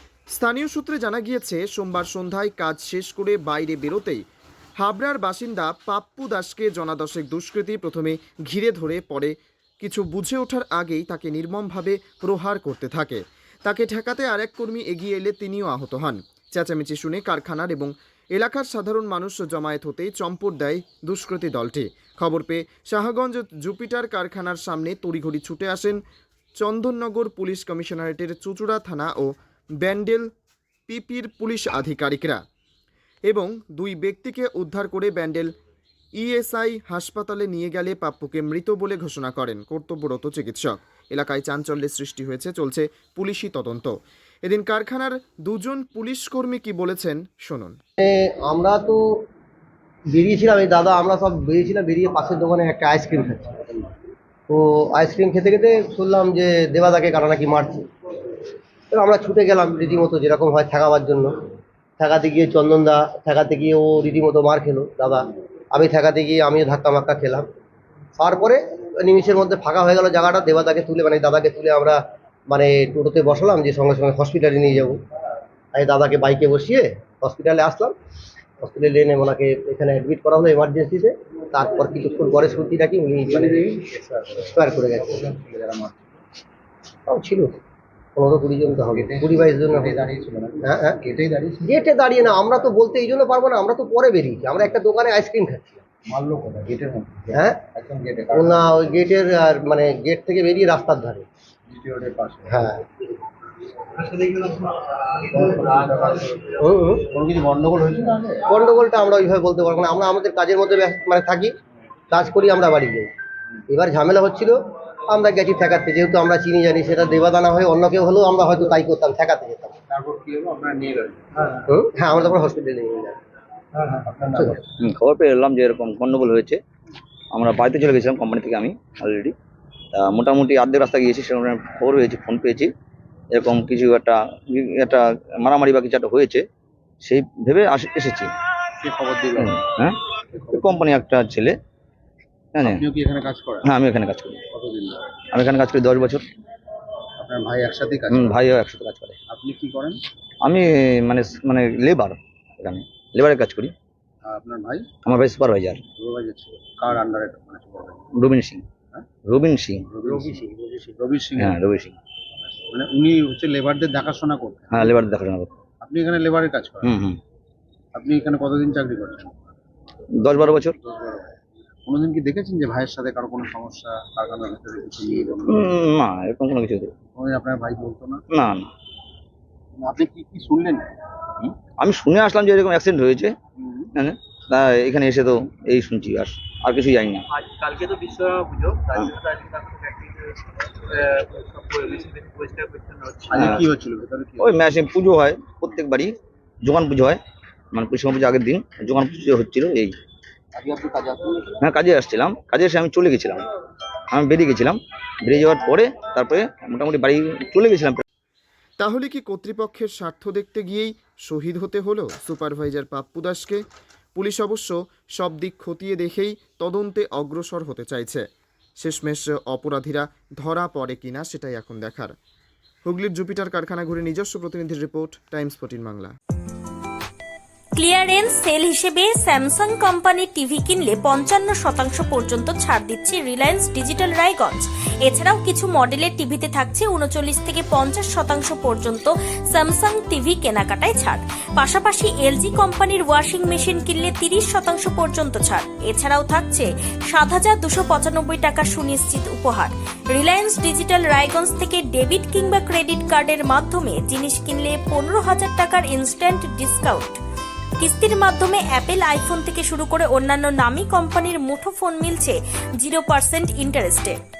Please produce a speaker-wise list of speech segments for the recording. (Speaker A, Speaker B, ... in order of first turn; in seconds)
Speaker A: 0.3-4.2, 4.8-26.0, 26.6-29.3, 29.8-30.3, 30.9-32.4, 33.3-35.5, 36.2-47.8, 208.8-213.6, 214.2-218.3, 218.8-222.2, 222.8-226.1
Speaker B: 48.0-49.2, 50.1-53.9, 54.5-57.9, 58.9-61.3, 62.0-67.5, 68.2-75.0, 75.7-78.0, 78.6-85.2, 87.1-87.6, 88.2-90.0, 90.6-91.0, 91.7-95.9, 97.3-97.6, 98.3-101.3, 102.5-102.8, 106.6-107.1, 108.5-111.5, 112.1-113.1, 113.7-119.8, 121.7-123.2, 124.2-124.6
Speaker C: 83.4-83.7, 85.1-86.0, 88.9-91.7, 96.0-98.6, 101.7-102.6, 105.2-106.4, 107.1-108.5, 119.9-121.2, 124.1-124.6, 138.8-139.6, 140.3-141.0, 142.6-143.7, 144.5-145.0, 147.2-148.4, 149.3-150.0, 154.3-154.9, 156.0-158.1, 159.9-161.6, 162.7-165.1, 165.8-166.9, 167.9-169.5, 170.3-171.3, 171.9-175.8, 177.1-178.2, 179.8-180.9, 183.6-183.9, 193.2-194.7, 200.5-201.6
Speaker D: 124.8-126.6, 127.3-129.3, 130.0-132.7, 133.3-136.4, 137.0-138.3, 139.4-140.0, 140.5-141.6, 142.6-142.9, 143.7-144.4, 145.3-146.2, 148.1-149.2, 150.4-153.7, 155.1-155.8, 158.2-158.7, 159.3-159.8, 161.4-161.9, 164.7-165.5, 166.8-167.2, 170.2-170.8, 175.5-176.9, 178.3-178.7, 181.4-183.4, 184.0-187.3, 193.4-193.7, 194.4-196.1, 196.6-197.2, 197.7-199.9, 201.6-203.4, 204.1-208.0
Speaker E: 187.3-190.0, 190.9-193.3
Speaker F: 227.8-257.2, 257.8-264.2